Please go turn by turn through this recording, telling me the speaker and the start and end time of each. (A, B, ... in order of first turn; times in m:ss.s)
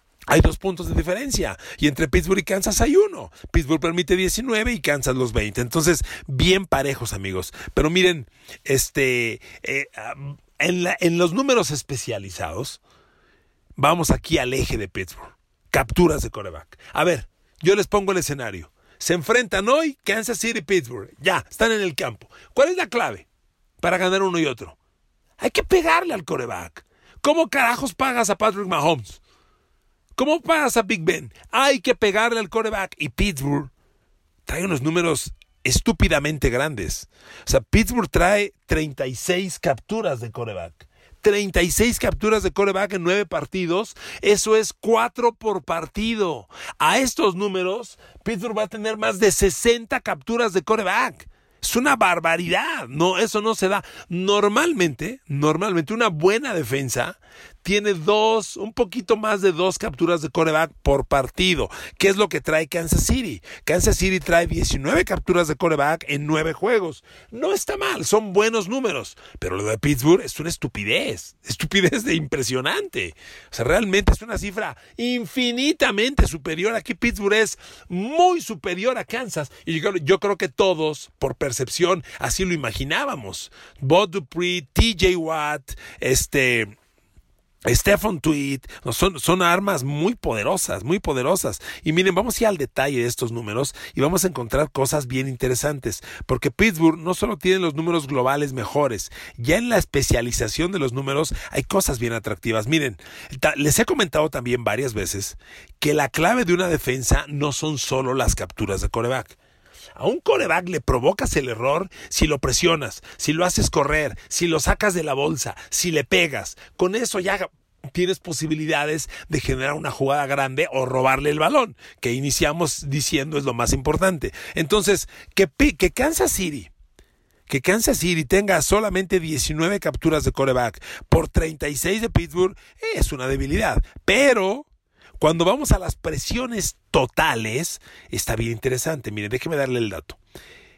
0:00.3-0:12.8 A
0:13.8-0:23.2 A
0:23.8-0:24.8 A
0:25.4-0:29.2 A
0:30.1-0:33.7 A
0:34.5-1:26.7 A
1:27.7-1:49.4 A
1:50.0-2:06.7 A
2:07.5-2:14.7 A
2:15.2-2:20.2 A